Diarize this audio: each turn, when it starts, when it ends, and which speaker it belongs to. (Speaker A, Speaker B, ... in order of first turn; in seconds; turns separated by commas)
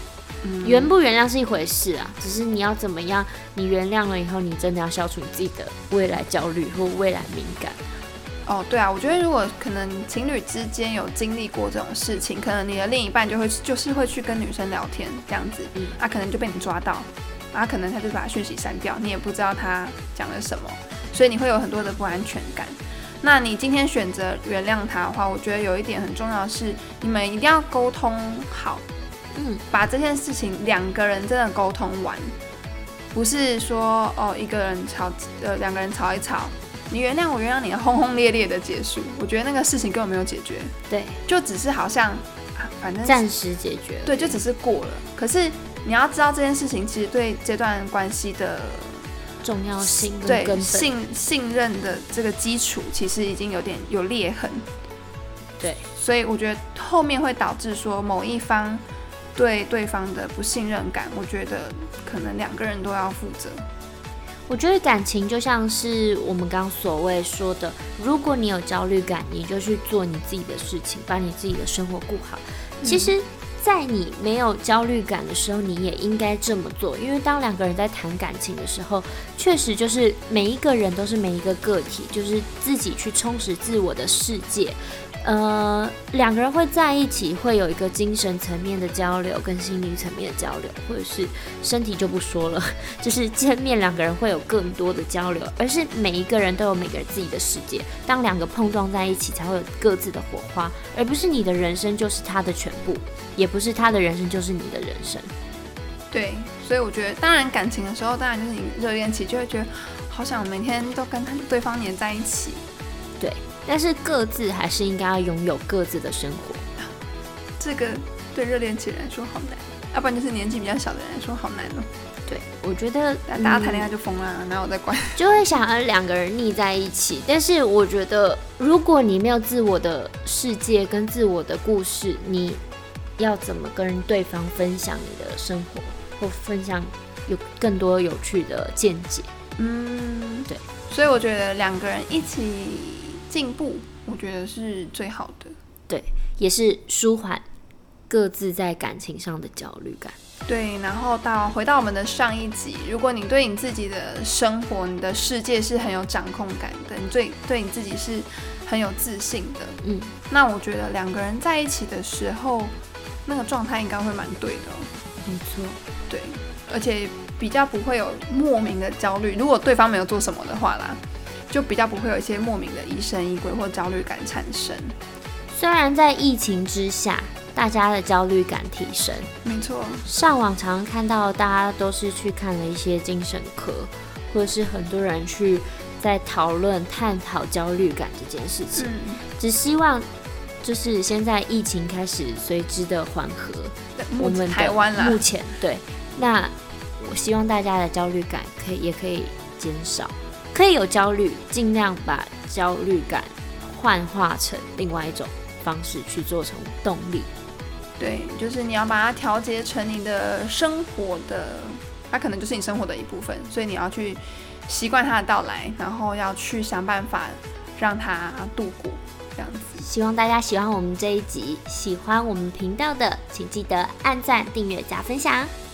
Speaker A: 0.4-0.9, Speaker B: 0.6-7.8, Speaker A: 8.5-28.8, Speaker B: 29.3-29.6, Speaker A: 29.7-32.3, Speaker A: 33.1-40.7, Speaker B: 40.9-41.2, Speaker A: 41.2-43.2, Speaker B: 43.0-44.4, Speaker A: 44.0-49.1, Speaker B: 49.4-50.9, Speaker A: 49.8-54.6, Speaker B: 55.6-55.8, Speaker A: 55.9-58.8, Speaker A: 59.4-63.6, Speaker B: 64.5-105.3, Speaker A: 72.8-73.1, Speaker A: 106.1-112.6, Speaker B: 113.2-116.6, Speaker A: 117.6-121.9, Speaker B: 122.3-123.9, Speaker A: 123.3-125.2, Speaker B: 125.2-132.6, Speaker B: 133.2-139.3, Speaker A: 139.6-145.6, Speaker B: 145.9-147.4, Speaker B: 148.1-150.2, Speaker A: 150.5-159.8, Speaker B: 159.8-160.1, Speaker A: 160.3-162.7, Speaker A: 163.2-164.9, Speaker B: 165.2-165.8, Speaker A: 166.1-174.9, Speaker B: 175.5-179.3, Speaker A: 179.4-180.1, Speaker B: 180.0-190.1, Speaker A: 188.8-189.2, Speaker B: 190.6-207.3, Speaker A: 194.0-195.2, Speaker A: 208.0-219.8, Speaker B: 219.8-225.5